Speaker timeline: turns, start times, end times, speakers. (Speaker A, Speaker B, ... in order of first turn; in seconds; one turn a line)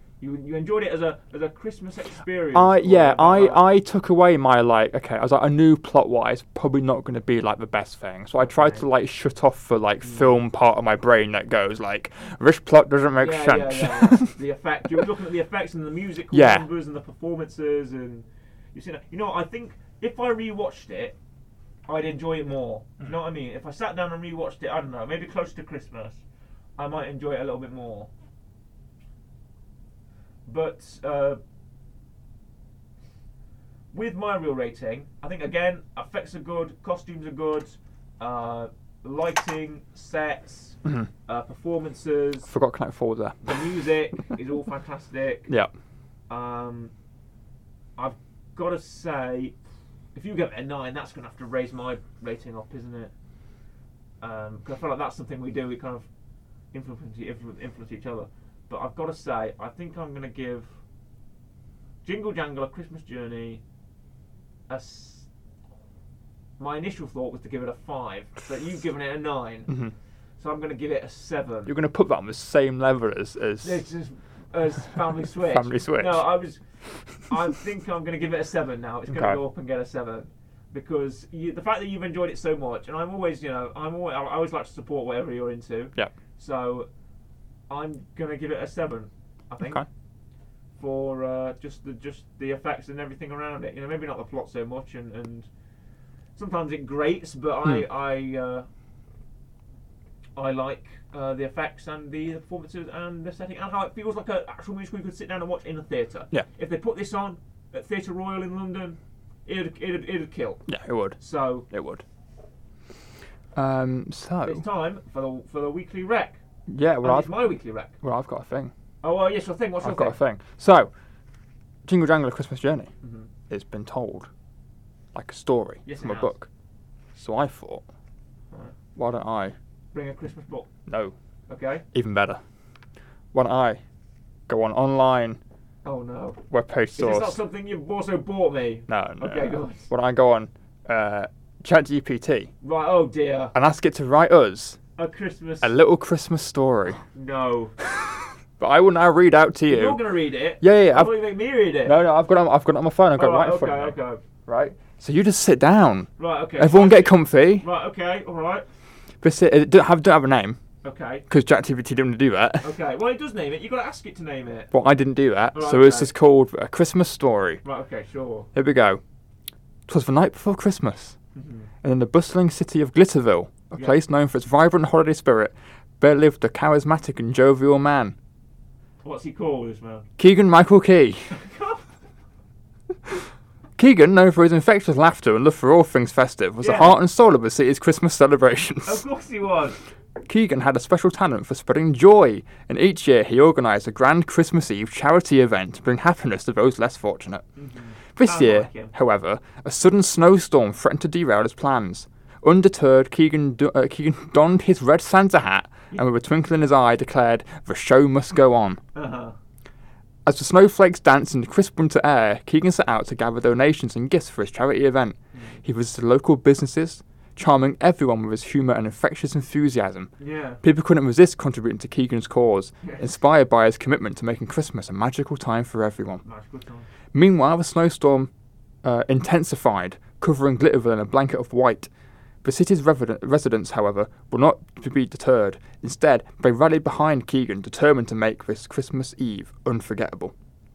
Speaker A: 0.2-3.6
Speaker B: 2.5-14.3
Speaker A: 8.4-8.8
Speaker A: 13.2-21.1
Speaker B: 16.3-16.7
Speaker A: 21.9-26.2
Speaker A: 26.8-28.1
Speaker A: 30.4-31.4
Speaker A: 33.9-42.5
Speaker B: 40.8-41.1
Speaker B: 42.5-43.4
Speaker A: 43.4-45.5
Speaker A: 46.3-46.9
Speaker A: 48.0-49.5
Speaker A: 50.1-53.1
Speaker A: 54.2-56.1
Speaker A: 56.7-60.7
Speaker A: 62.0-63.6
Speaker A: 64.7-65.3
Speaker A: 66.6-69.7
Speaker A: 70.4-71.7
Speaker B: 71.7-73.8
Speaker A: 73.6-76.6
Speaker B: 75.5-76.2
Speaker A: 77.3-86.9
Speaker B: 79.1-79.4
Speaker A: 87.7-89.8
Speaker A: 90.8-95.5
Speaker A: 96.4-98.7
Speaker A: 100.4-110.6
Speaker B: 110.7-111.2
Speaker A: 111.2-111.7
Speaker B: 111.7-112.0
Speaker B: 113.5-114.6
Speaker A: 114.4-116.4
Speaker B: 116.7-117.4
Speaker A: 117.0-117.9
Speaker B: 118.0-118.7
Speaker A: 119.0-120.2
Speaker B: 119.8-120.9
Speaker B: 121.8-122.9
Speaker A: 123.0-123.3
Speaker B: 123.5-124.3
Speaker B: 125.1-126.5
Speaker A: 125.8-126.3
Speaker B: 127.1-127.8
Speaker B: 128.9-129.5
Speaker A: 129.9-130.7
Speaker B: 130.9-131.1
Speaker A: 131.5-131.8
Speaker B: 131.9-132.4
Speaker B: 133.3-133.8
Speaker B: 134.5-135.4
Speaker A: 135.8-136.4
Speaker B: 136.5-137.4
Speaker A: 137.0-139.9
Speaker B: 138.9-142.5
Speaker A: 142.6-143.5
Speaker B: 143.5-144.8
Speaker A: 145.0-145.7
Speaker B: 145.6-147.0
Speaker A: 147.1-147.7
Speaker B: 148.0-150.0
Speaker A: 149.7-152.0
Speaker B: 150.6-151.1
Speaker B: 151.8-157.7
Speaker A: 153.2-154.2
Speaker A: 156.2-158.6
Speaker B: 159.2-160.6
Speaker A: 160.8-161.2
Speaker B: 161.3-162.7
Speaker A: 162.6-164.7
Speaker B: 164.7-167.6
Speaker A: 165.5-166.1
Speaker A: 167.6-168.5
Speaker B: 168.5-169.0
Speaker B: 169.9-171.2
Speaker A: 171.3-171.7
Speaker B: 171.8-178.1
Speaker A: 179.0-180.1
Speaker B: 180.2-181.3
Speaker A: 181.3-181.8
Speaker B: 183.8-189.0
Speaker A: 186.6-187.0
Speaker A: 188.8-189.8
Speaker B: 190.2-197.4
Speaker A: 197.6-198.9
Speaker B: 198.2-208.8
Speaker A: 208.9-209.3
Speaker B: 210.2-220.1
Speaker A: 220.2-220.6
Speaker B: 220.6-226.2
Speaker A: 222.8-223.1
Speaker A: 226.2-226.9
Speaker B: 227.1-228.3
Speaker B: 228.8-231.9
Speaker B: 232.4-240.3